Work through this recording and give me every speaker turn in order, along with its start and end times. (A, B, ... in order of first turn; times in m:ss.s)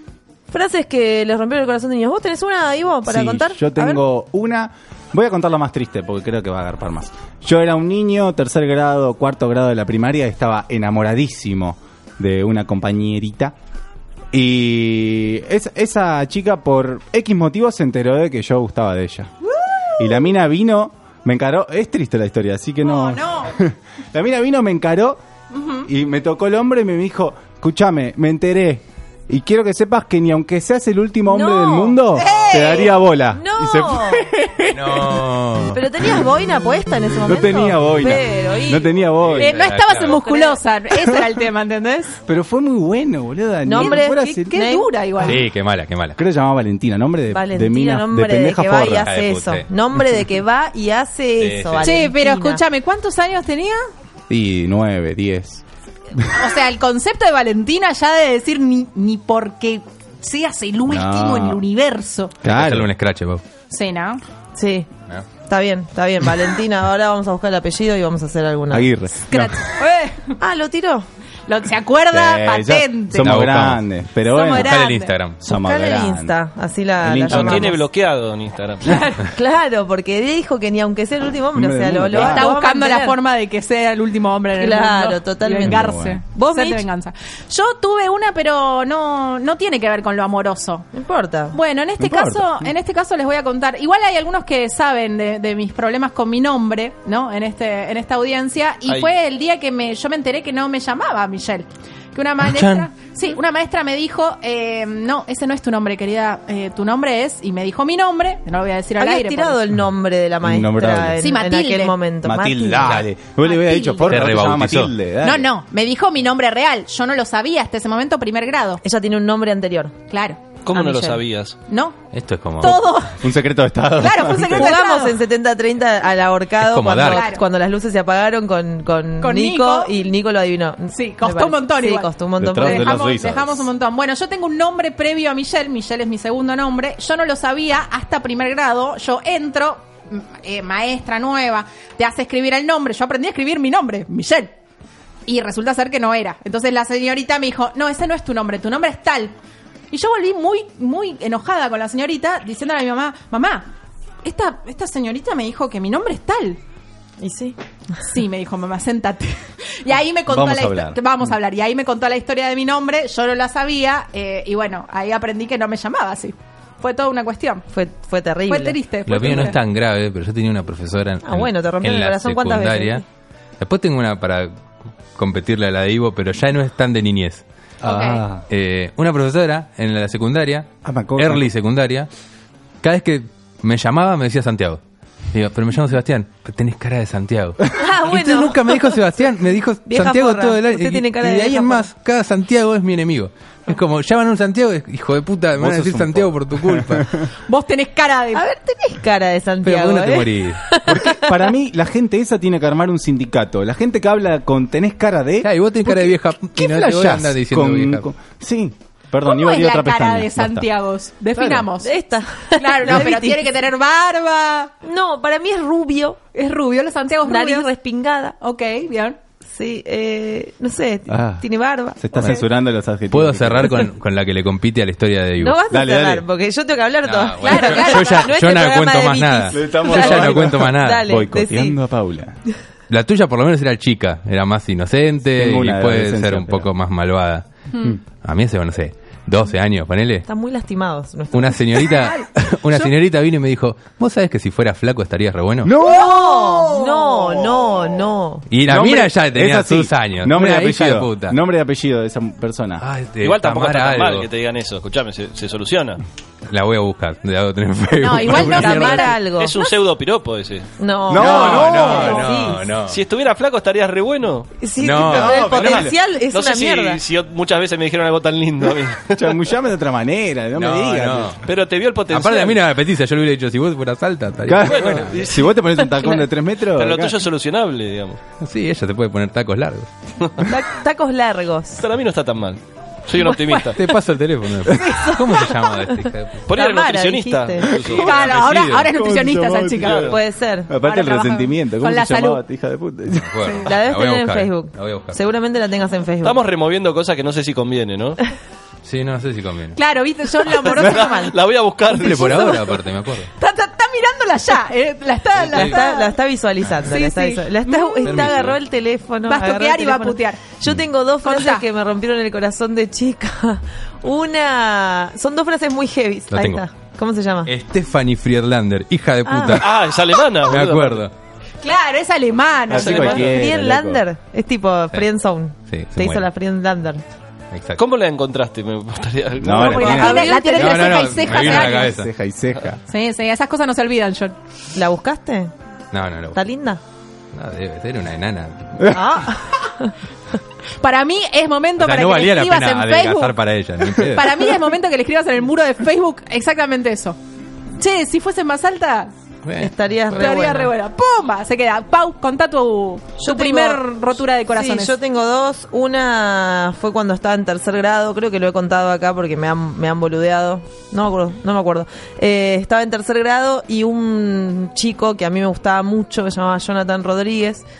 0:00.5-0:04.0 A
0:03.1-0:13.5 B
0:14.3-0:19.3 B
0:19.6-0:20.3 C
0:20.0-0:25.2 B
0:22.8-0:23.5 C
0:25.5-0:25.9 C
0:25.8-0:35.2 B
0:31.3-0:34.3 A
0:32.2-0:32.9 C
0:34.6-0:35.8 D
0:35.7-0:39.1 A
0:37.2-0:39.5 B
0:39.2-0:40.2 D
0:39.4-0:42.2 C
0:40.0-0:40.6 A
0:41.0-0:41.3 B
0:42.3-0:44.7 B
0:43.6-0:44.9 A
0:43.8-0:45.4 C
0:45.2-0:46.2 D
0:46.2-0:49.1 B
0:47.3-0:52.6 A
0:49.0-0:49.7 D
0:51.4-0:51.8 D
0:51.8-0:53.8 C
0:54.3-0:55.6 B
0:56.3-1:02.3 C
1:00.9-1:01.6 B
1:02.4-1:02.9 B
1:02.5-1:03.4 D
1:03.7-1:04.2 C
1:04.5-1:04.9 A
1:05.4-1:08.9 A
1:08.7-1:09.6 B
1:09.3-1:10.4 C
1:10.4-1:11.0 A
1:11.5-1:13.3 C
1:12.1-1:14.8 B
1:13.2-1:13.8 D
1:14.3-1:15.1 C
1:14.6-1:15.4 D
1:15.4-1:16.4 B
1:15.4-1:17.9 A
1:17.0-1:17.7 B
1:17.2-1:19.0 E
1:18.8-1:23.2 A
1:21.5-1:22.5 B
1:22.1-1:30.8 C
1:24.6-1:26.8 A
1:25.6-1:26.2 B
1:30.9-1:31.6 A
1:31.5-1:49.6 C
1:32.0-1:32.7 B
1:38.8-1:39.1 E
1:42.4-1:42.9 D
1:49.0-1:53.0 A
1:50.4-1:51.2 B
1:51.2-1:51.9 C
1:52.2-1:55.5 B
1:53.4-1:54.2 C
1:54.0-1:54.9 D
1:55.2-1:58.8 C
1:58.8-1:59.9 A
2:00.1-2:00.4 C
2:00.6-2:01.6 E
2:00.7-2:01.2 A
2:01.7-2:02.0 C
2:02.1-2:02.8 D
2:02.6-2:03.2 C
2:03.2-2:04.7 B
2:04.0-2:05.2 C
2:04.4-2:13.0 A
2:06.6-2:07.3 D
2:07.0-2:07.4 C
2:09.2-2:09.9 C
2:10.9-2:24.5 C
2:12.4-2:13.7 B
2:25.2-2:29.3 C
2:29.9-2:33.7 C
2:34.2-2:36.6 C
2:37.2-2:37.6 A
2:38.0-2:47.6 C
2:40.3-2:41.0 B
2:47.7-2:49.4 A
2:48.5-2:49.6 C
2:49.0-2:53.0 D
2:51.2-2:53.0 A
2:53.6-2:54.5 D
2:55.1-2:57.4 D
2:57.8-2:58.4 B
2:57.8-2:58.2 C
2:58.5-3:02.1 D
3:00.8-3:01.5 B
3:02.8-3:04.8 D
3:05.3-3:17.2 D
3:07.7-3:09.0 A
3:09.8-3:11.9 A
3:15.6-3:17.2 B
3:17.4-3:18.4 C
3:18.3-3:21.4 A
3:19.6-3:20.6 D
3:20.8-3:30.7 B
3:25.4-3:28.1 D
3:29.2-3:31.9 C
3:31.4-3:33.4 A
3:32.6-3:34.7 C
3:34.8-3:36.2 A
3:36.3-3:37.7 C
3:37.2-3:38.4 A
3:38.4-3:39.2 C
3:39.4-3:42.4 A
3:41.1-3:41.4 B
3:42.0-3:43.7 B
3:43.1-3:45.6 D
3:45.4-3:51.8 A
3:45.7-3:46.2 B
3:47.0-3:51.2 D
3:47.4-3:48.3 C
3:49.5-3:52.3 B
3:52.9-3:57.4 D
3:55.4-3:56.7 B
3:57.7-3:58.0 C
3:58.1-4:00.2 D
4:00.2-4:01.9 A
4:01.3-4:05.7 D
4:01.8-4:02.2 C
4:05.6-4:07.9 B
4:05.8-4:08.4 A
4:05.9-4:07.0 C
4:08.5-4:11.4 D
4:08.7-4:12.8 B
4:12.8-4:14.3 D
4:13.2-4:16.0 E
4:16.5-4:19.2 D
4:18.0-4:19.1 C
4:18.4-4:19.7 A
4:18.6-4:20.7 E
4:20.8-4:22.7 A
4:21.1-4:22.2 B
4:21.1-4:23.0 D
4:22.9-4:24.5 E
4:24.6-4:27.0 A
4:24.8-4:25.9 D
4:24.9-4:25.9 B
4:25.5-4:29.4 E
4:29.1-4:31.4 B
4:30.5-4:31.4 D
4:31.4-4:32.6 E
4:32.1-4:35.3 D
4:34.5-4:37.1 B
4:34.6-4:35.5 E
4:35.6-4:36.3 A
4:36.8-4:38.2 E
4:38.4-4:39.9 D
4:40.2-4:40.5 E
4:40.4-4:41.8 A
4:41.7-4:43.8 E
4:43.2-4:43.6 A
4:43.4-4:46.5 D
4:44.6-4:47.8 A
4:46.5-4:48.8 E
4:47.6-4:48.0 B
4:47.9-4:50.0 C
4:48.7-4:53.3 B
4:49.8-4:50.1 E
4:50.0-4:50.7 A
4:50.8-4:52.4 C
4:53.2-4:55.2 D
4:53.4-4:53.7 C
4:53.6-4:56.4 A
4:56.2-4:58.2 E
4:58.8-4:59.8 D
4:59.7-5:01.4 C
5:00.5-5:02.7 E
5:01.9-5:03.3 D
5:02.0-5:02.6 C
5:03.4-5:06.1 C
5:05.4-5:05.8 D
5:05.5-5:17.5 A
5:06.8-5:08.3 C
5:08.0-5:08.6 D
5:09.2-5:10.4 C
5:11.2-5:11.6 C
5:16.3-5:16.6 D
5:17.4-5:19.8 D
5:19.2-5:19.6 A
5:19.5-5:21.0 E
5:20.4-5:21.1 D
5:21.6-5:23.2 C
5:22.7-5:24.0 B
5:22.7-5:23.2 E
5:22.8-5:27.0 A
5:25.7-5:26.2 D
5:27.5-5:27.8 D
5:27.8-5:30.3 E
5:29.4-5:30.3 B
5:29.5-5:31.9 C
5:29.7-5:31.1 A
5:30.5-5:32.1 D
5:31.2-5:32.8 B
5:32.9-5:34.4 C
5:34.7-5:35.5 A
5:35.9-5:36.4 D
5:36.3-5:36.8 A
5:37.3-5:39.0 D
5:38.9-5:39.9 A
5:40.8-5:43.3 C
5:41.8-5:44.3 D
5:44.1-5:47.2 C
5:47.8-5:49.1 C
5:49.4-5:50.4 D
5:49.6-5:50.7 A
5:50.1-5:55.0 C
5:53.2-5:53.8 A
5:54.5-6:07.6 A